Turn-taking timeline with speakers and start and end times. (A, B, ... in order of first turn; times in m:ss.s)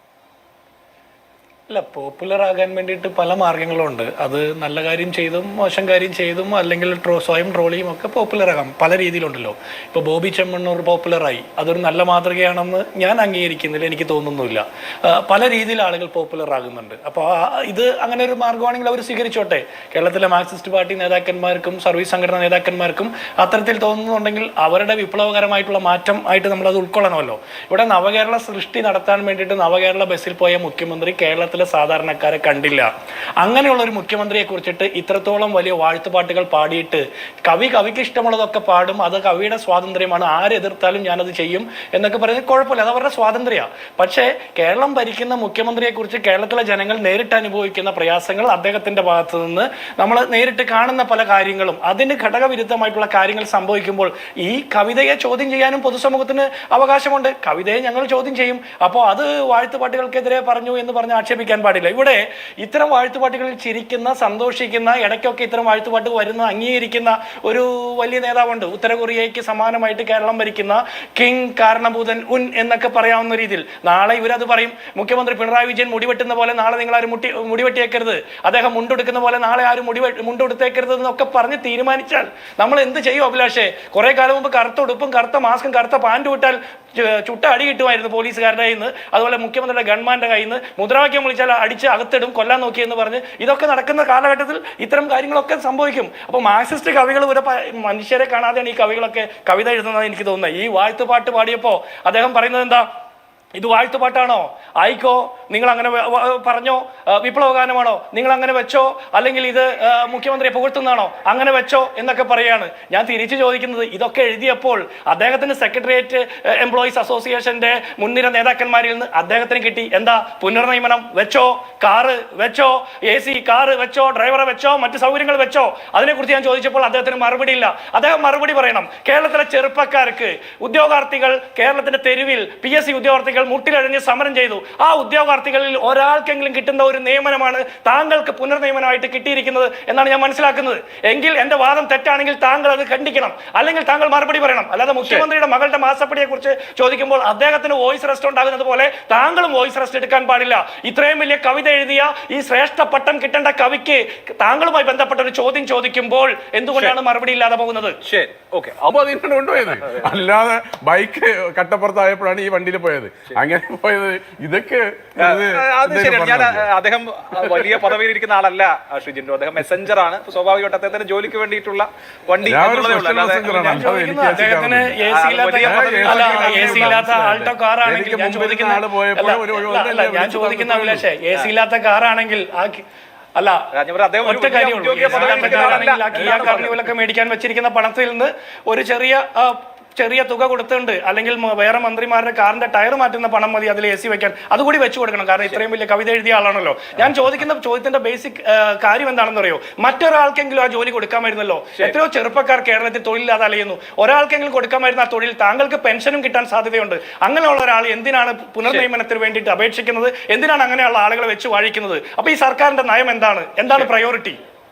0:01.7-1:42.8 A
1:43.6-2:38.0 A
2:38.0-2:38.8 B
2:38.8-2:46.7 C
2:45.2-2:53.9 B
2:47.4-2:48.0 C
2:52.4-2:55.0 C
2:53.7-3:02.8 A
2:55.0-2:57.0 B
2:55.6-3:01.1 C
3:03.4-3:03.7 A
3:03.7-3:06.8 B
3:04.2-3:34.4 A